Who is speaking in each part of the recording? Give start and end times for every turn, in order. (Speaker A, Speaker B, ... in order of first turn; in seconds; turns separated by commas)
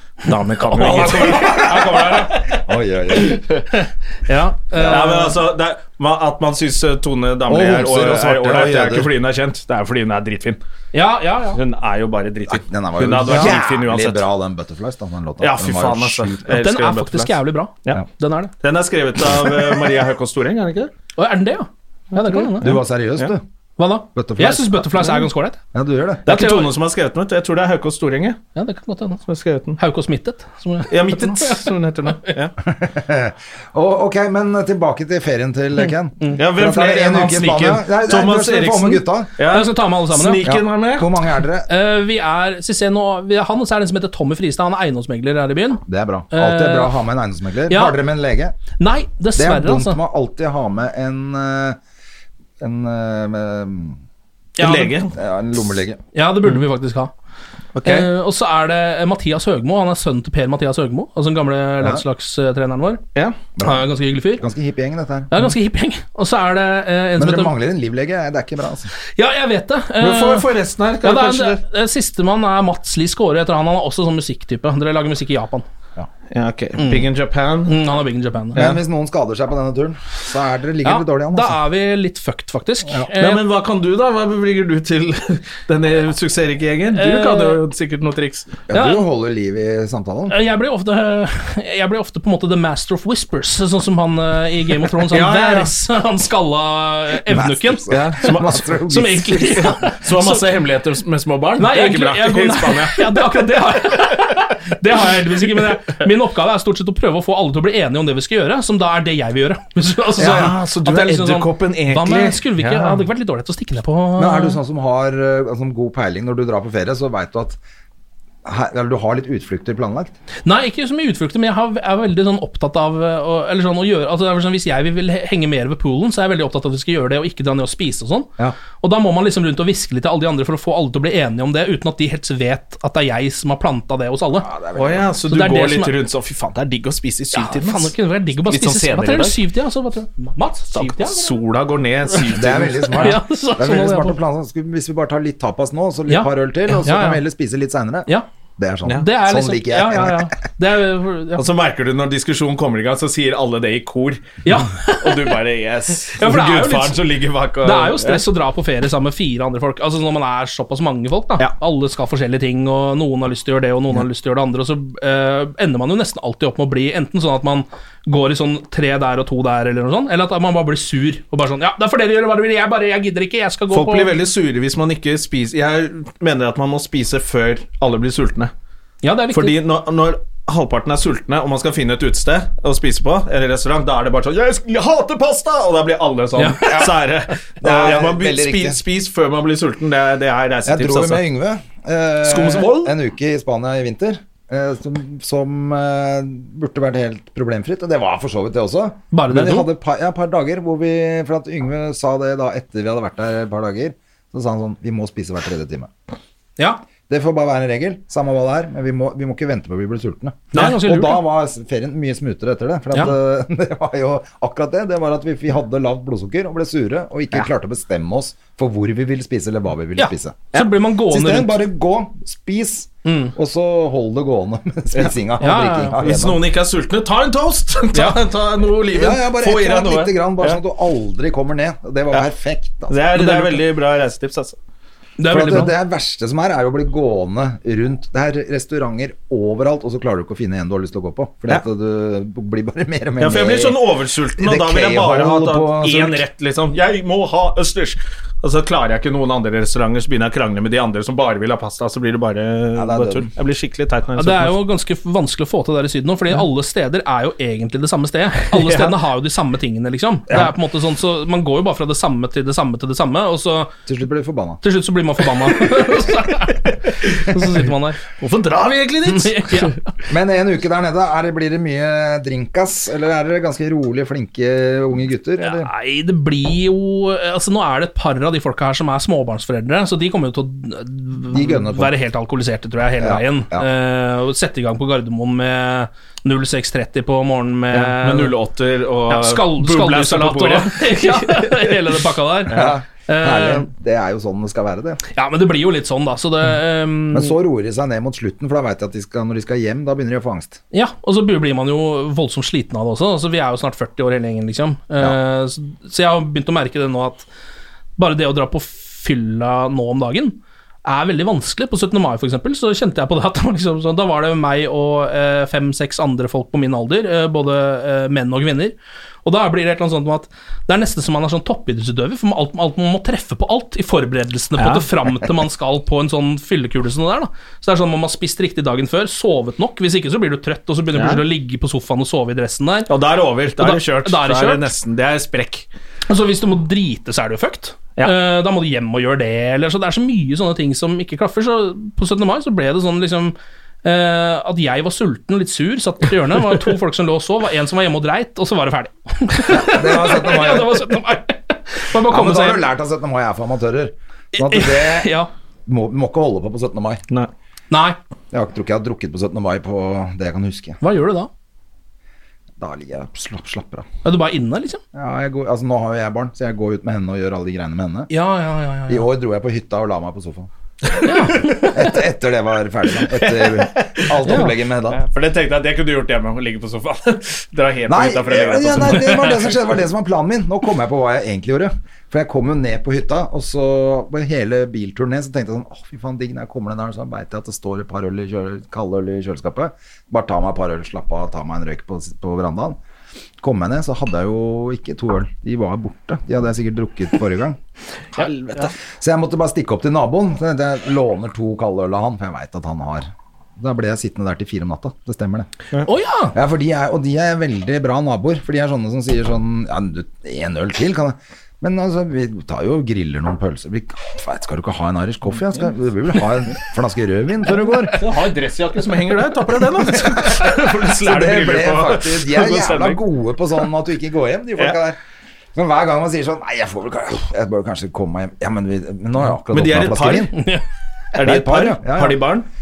Speaker A: 0.2-2.6, Speaker B: 0.7-2.1, Speaker C: 0.8-3.5, Speaker A: 3.1-3.7, Speaker B: 4.3-5.3, Speaker C: 4.8-5.1, Speaker A: 4.8-10.6, Speaker C: 7.5-9.1, Speaker B: 10.9-11.6, Speaker A: 11.5-14.3, Speaker C: 12.5-16.5, Speaker B: 13.3-13.6, Speaker A: 15.4-18.0, Speaker B: 16.5-18.5, Speaker A: 18.6-20.9, Speaker B: 21.2-22.8, Speaker A: 22.1-23.3, Speaker C: 22.6-23.4, Speaker B: 23.8-25.6, Speaker C: 24.1-26.3, Speaker B: 26.3-26.7, Speaker A: 26.3-28.4, Speaker B: 28.6-29.2, Speaker A: 29.3-29.8, Speaker B: 29.8-31.7, Speaker A: 30.9-32.5, Speaker C: 32.7-39.3, Speaker A: 36.4-41.1, Speaker B: 39.4-40.5, Speaker C: 40.5-41.7, Speaker B: 41.7-46.9, Speaker C: 45.9-48.6, Speaker B: 47.7-48.0, Speaker B: 48.8-50.0, Speaker C: 49.4-51.8, Speaker C: 52.6-54.0, Speaker B: 54.6-55.0, Speaker A: 54.6-55.1, Speaker C: 55.1-56.0, Speaker B: 56.1-57.1, Speaker A: 57.8-58.1, Speaker B: 57.8-63.0, Speaker C: 61.8-62.0, Speaker C: 63.6-65.5, Speaker B: 63.6-64.5, Speaker B: 65.3-67.6, Speaker C: 67.2-68.9, Speaker B: 69.2-70.5, Speaker A: 70.0-71.6, Speaker B: 71.0-75.7, Speaker A: 76.3-77.8, Speaker B: 76.8-77.1, Speaker B: 77.7-78.6, Speaker C: 78.5-81.6, Speaker B: 80.8-83.4, Speaker A: 83.2-88.5, Speaker B: 87.0-87.6, Speaker C: 88.7-90.4, Speaker B: 88.7-89.1, Speaker B: 90.3-100.4, Speaker A: 95.1-95.7, Speaker C: 97.2-99.8, Speaker A: 97.9-98.7, Speaker A: 99.7-103.4, Speaker B: 101.6-114.6, Speaker A: 110.2-113.0, Speaker C: 110.2-110.5, Speaker C: 114.2-117.6, Speaker C: 118.5-120.2, Speaker B: 120.5-134.5, Speaker C: 134.4-135.1, Speaker A: 134.8-139.4, Speaker B: 135.2-135.9, Speaker B: 137.3-141.4, Speaker A: 140.7-143.2, Speaker B: 142.1-142.3, Speaker C: 142.4-150.4, Speaker B: 142.9-144.2, Speaker B: 146.1-147.2, Speaker B: 149.0-151.4, Speaker A: 151.3-158.2, Speaker B: 154.4-155.4, Speaker B: 156.1-157.0, Speaker B: 157.6-174.2, Speaker A: 173.7-178.5, Speaker B: 179.0-179.6, Speaker A: 179.3-191.2, Speaker B: 186.4-186.9, Speaker C: 187.6-188.8, Speaker C: 190.7-205.9, Speaker A: 192.2-192.9, Speaker B: 199.1-199.7, Speaker B: 206.6-206.8, Speaker C: 207.0-220.5, Speaker B: 210.5-211.2, Speaker B: 220.0-221.6, Speaker C: 221.1-226.4, Speaker B: 223.1-223.3, Speaker B: 225.4-226.0, Speaker A: 226.0-230.6, Speaker B: 227.9-228.2, Speaker C: 228.9-233.1, Speaker A: 232.9-234.6, Speaker B: 233.1-233.6, Speaker B: 235.2-235.8, Speaker C: 235.3-243.8, Speaker A: 243.2-254.6, Speaker C: 244.4-246.2, Speaker C: 252.8-253.3, Speaker B: 254.2-263.7, Speaker A: 258.5-258.9, Speaker C: 263.9-264.6, Speaker B: 264.6-268.0, Speaker A: 268.1-269.8, Speaker B: 269.1-269.9, Speaker C: 270.1-275.7, Speaker B: 275.4-288.4, Speaker C: 281.3-281.9, Speaker C: 283.0-283.7, Speaker A: 287.7-291.9, Speaker B: 289.1-293.7, Speaker C: 292.5-295.0, Speaker B: 295.1-297.4, Speaker C: 297.1-300.6, Speaker B: 300.7-307.3, Speaker B: 308.0-332.9, Speaker A: 324.6-324.9, Speaker A: 330.9-331.2, Speaker A: 332.9-335.7, Speaker B: 333.6-334.7, Speaker B: 336.1-352.6, Speaker C: 349.5-350.9, Speaker C: 352.1-357.0, Speaker B: 354.3-355.3, Speaker B: 357.7-358.0, Speaker C: 358.3-360.8, Speaker B: 360.8-361.3, Speaker C: 362.6-363.9, Speaker B: 364.0-364.8, Speaker C: 364.9-368.1, Speaker B: 368.1-369.1, Speaker C: 368.9-370.5, Speaker B: 371.0-372.0, Speaker C: 371.5-375.0, Speaker A: 373.8-379.4, Speaker B: 374.2-374.6, Speaker C: 377.9-392.8, Speaker C: 393.4-397.6, Speaker A: 398.2-398.6, Speaker C: 398.6-405.5, Speaker B: 405.9-406.4, Speaker C: 406.3-418.0, Speaker A: 417.9-423.0, Speaker C: 420.1-425.0, Speaker C: 425.6-430.4, Speaker A: 429.5-430.4, Speaker B: 430.4-430.6, Speaker A: 431.1-432.5, Speaker C: 431.2-432.2